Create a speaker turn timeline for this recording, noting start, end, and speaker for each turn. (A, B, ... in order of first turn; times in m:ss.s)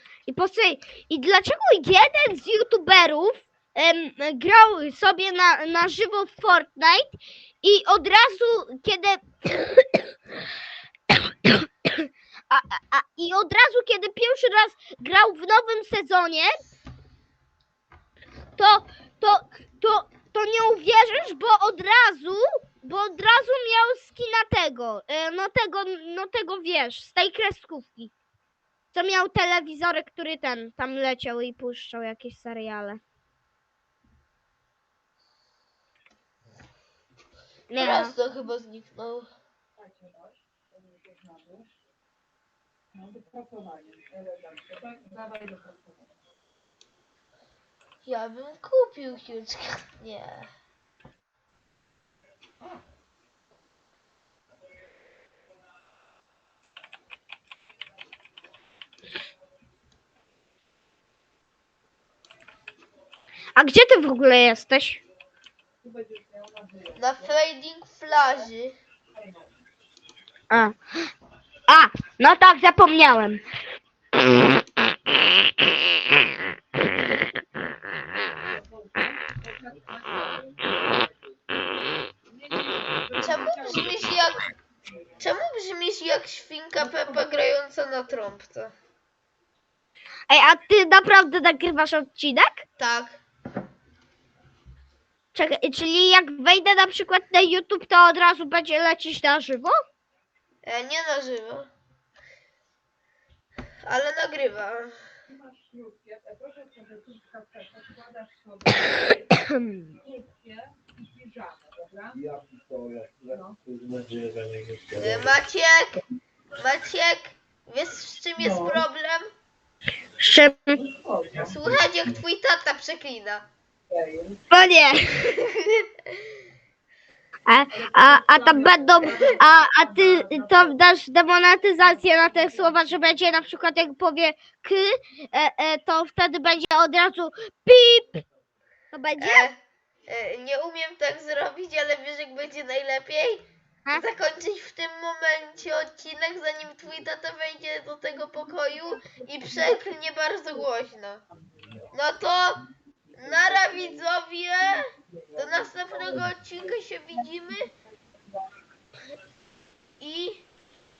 0:00.3-0:10.0 A
0:11.1-0:16.5 A
0:18.6-0:28.1 A
0:28.9-0:33.0 A
0:37.7-0:38.1 A
0:37.8-0:39.3 B
0:48.0-0:50.5 B
1:03.6-1:05.0 A
1:06.9-1:08.8 B
1:10.5-1:10.7 A
1:11.7-1:13.4 A
1:23.2-1:24.4 B
1:25.2-1:28.7 B
1:30.3-1:32.6 A
1:32.8-1:33.2 B
1:35.3-1:39.8 A
1:40.6-1:41.7 B
1:43.8-1:44.9 B
1:49.3-1:49.8 A
1:52.1-1:55.3 C
1:54.9-1:56.0 B
1:56.6-1:59.3 B
2:00.2-2:00.8 A
2:01.4-2:03.4 B
2:04.5-2:05.2 A
2:07.4-2:18.2 A
2:18.9-2:19.5 A
2:19.2-2:31.2 B
2:31.9-2:32.6 B
2:33.2-2:34.8 B
2:35.4-2:37.7 B
2:40.0-2:40.4 B